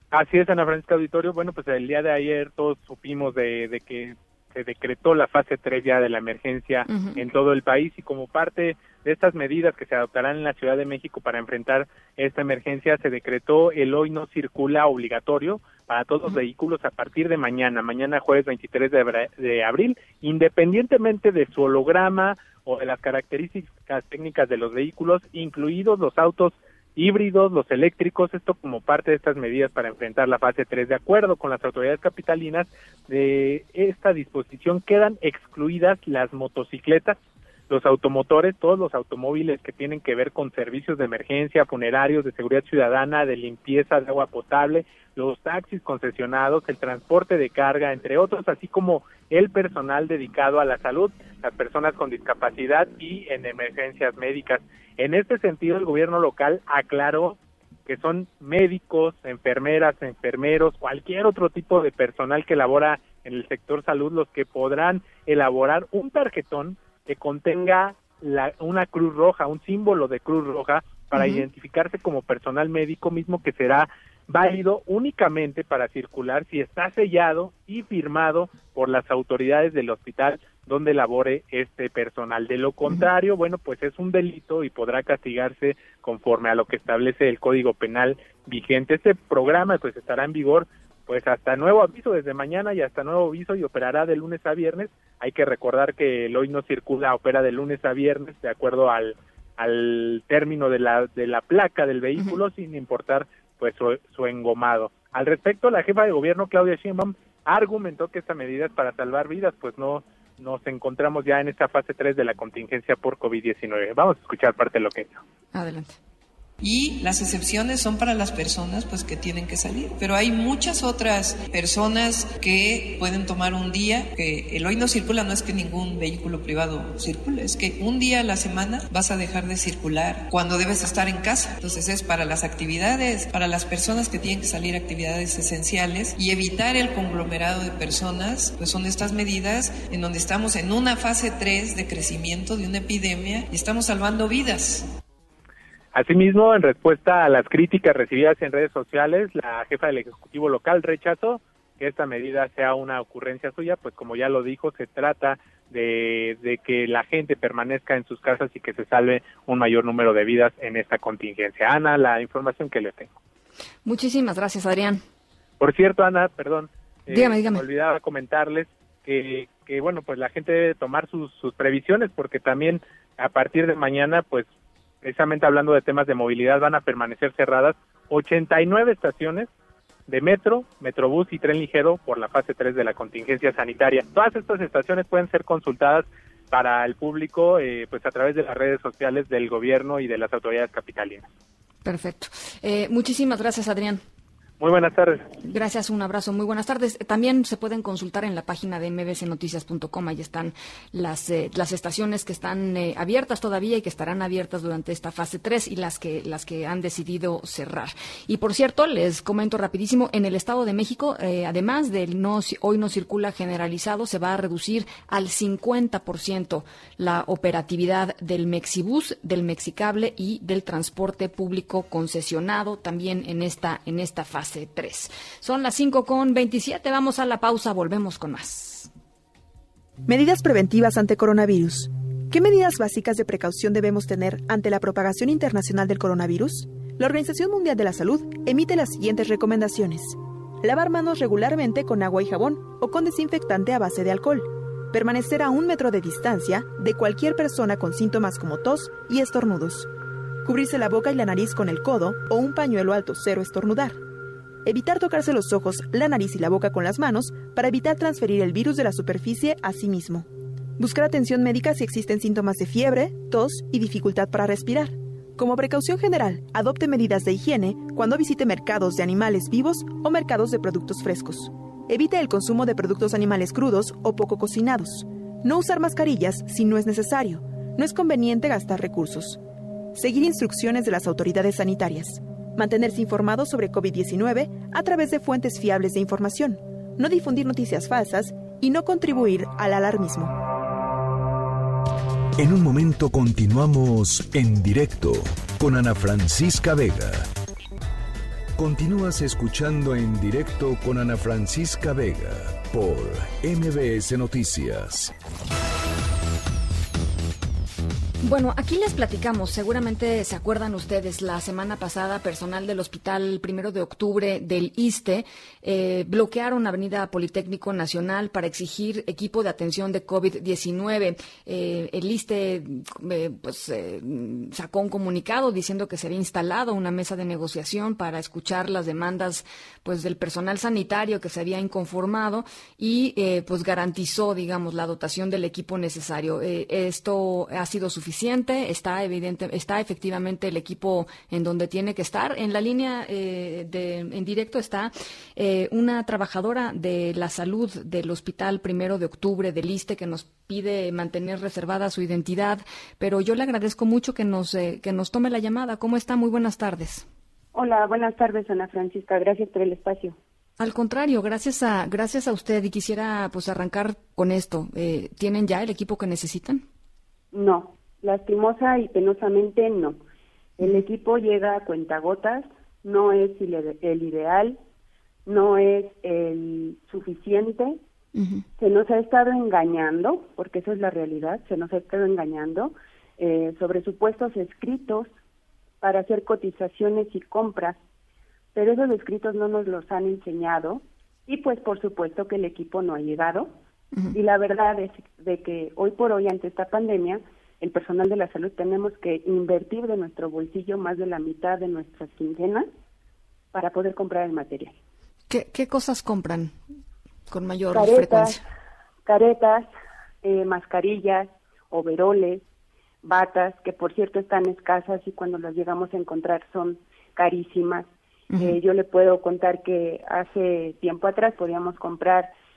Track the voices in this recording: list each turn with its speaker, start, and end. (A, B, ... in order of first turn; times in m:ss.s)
0:00.1-0:37.2 A
0:06.9-0:07.2 B
0:37.7-1:55.2 A
1:11.1-1:11.4 B
1:55.5-1:55.9 B
1:56.6-2:24.9 C
2:25.9-2:43.1 A
2:43.8-2:45.0 B
2:45.6-2:54.5 A
2:47.1-2:47.6 B
2:55.0-2:59.5 A
3:00.1-3:11.3 A
3:11.8-3:14.0 B
3:14.6-3:15.3 A
3:15.4-3:48.9 B
3:50.1-4:09.9 D
4:10.4-4:14.0 D
4:14.6-4:39.4 D
4:39.9-4:50.4 D
4:52.4-4:57.3 E
4:58.6-5:05.1 E
5:08.2-5:57.0 B
5:57.5-6:00.2 F
6:00.6-6:06.6 B
6:07.3-6:10.0 F
6:10.6-6:14.6 F
6:15.2-6:17.8 F
6:18.2-6:18.4 B
6:18.6-6:25.1 F
6:25.8-6:27.8 F
6:28.5-6:33.5 F
6:34.1-6:42.7 F
6:43.5-6:44.8 F
6:45.3-6:46.6 B
6:47.3-6:48.4 B
6:47.7-6:48.4 F
6:49.0-6:49.7 F
6:50.2-6:52.4 F
6:53.0-7:02.3 F